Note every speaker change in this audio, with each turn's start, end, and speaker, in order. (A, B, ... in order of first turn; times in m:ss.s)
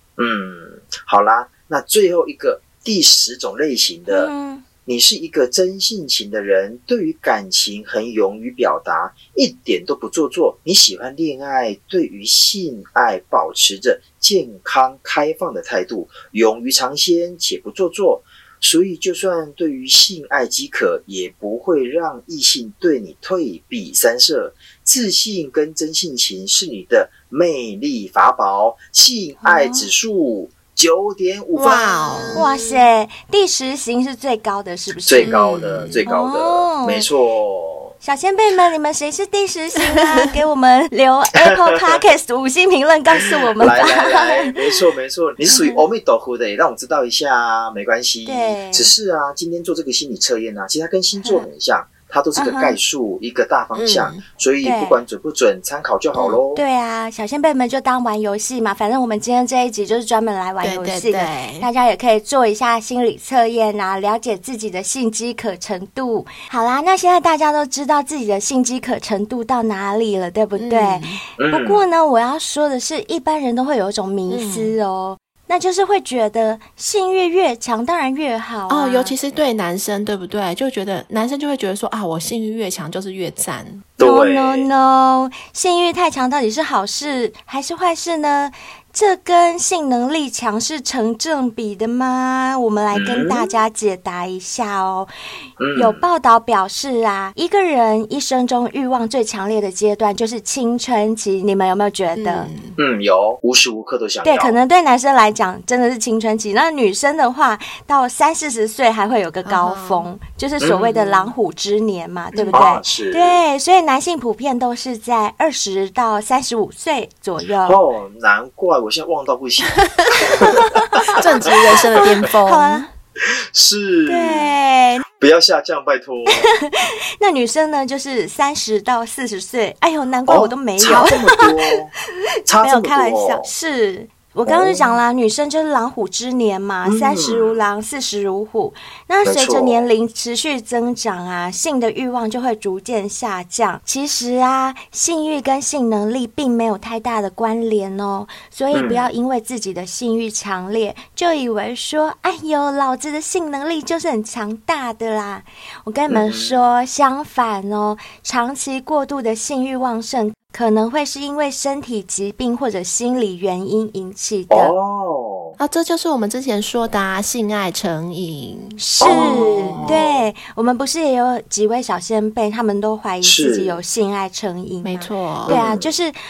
0:00.2-0:04.3 A
0:04.1-0:04.6 B
0:04.8-0:32.5 A
0:29.4-0:29.9 B
0:31.5-0:32.8 C
0:32.3-0:35.3 B
0:35.0-0:37.9 A
0:35.2-0:36.0 C
0:36.0-0:37.0 B
0:38.0-0:44.5 B
0:41.4-0:42.0 A
0:43.2-0:56.6 A
0:45.5-0:45.8 B
0:48.2-0:48.9 B
0:52.4-0:52.8 B
0:53.7-0:54.2 C
0:54.6-0:55.0 B
0:56.5-1:19.1 B
1:00.6-1:01.7 C
1:10.6-1:11.2 C
1:11.4-1:11.9 A
1:14.3-1:14.7 C
1:18.7-1:23.8 C
1:24.0-1:24.7 A
1:24.0-1:35.1 B
1:32.9-1:33.4 A
1:35.6-1:36.0 A
1:35.8-1:42.5 B
1:42.1-1:42.8 C
1:42.8-1:44.6 A
1:44.2-1:57.8 B
1:49.4-1:50.1 C
1:50.6-1:51.0 A
1:50.9-1:51.3 C
1:52.3-1:52.7 C
1:52.5-1:53.4 A
1:57.6-2:02.0 A
1:59.8-2:00.1 C
2:00.3-2:01.2 B
2:01.2-2:02.9 C
2:01.9-2:02.9 B
2:03.2-2:04.6 A
2:04.1-2:05.0 B
2:05.2-2:06.5 A
2:06.3-2:11.5 B
2:10.3-2:11.9 A
2:12.5-2:13.5 A
2:12.5-2:44.7 B
2:14.4-2:15.0 A
2:16.8-2:17.6 A
2:19.2-2:19.9 A
2:28.7-2:29.1 A
2:36.1-2:36.6 A
2:44.5-2:45.6 A
2:45.6-2:50.0 C
2:48.8-2:56.1 B
2:49.0-2:50.3 A
2:53.2-2:53.8 A
2:54.8-2:55.6 C
2:55.5-2:55.9 A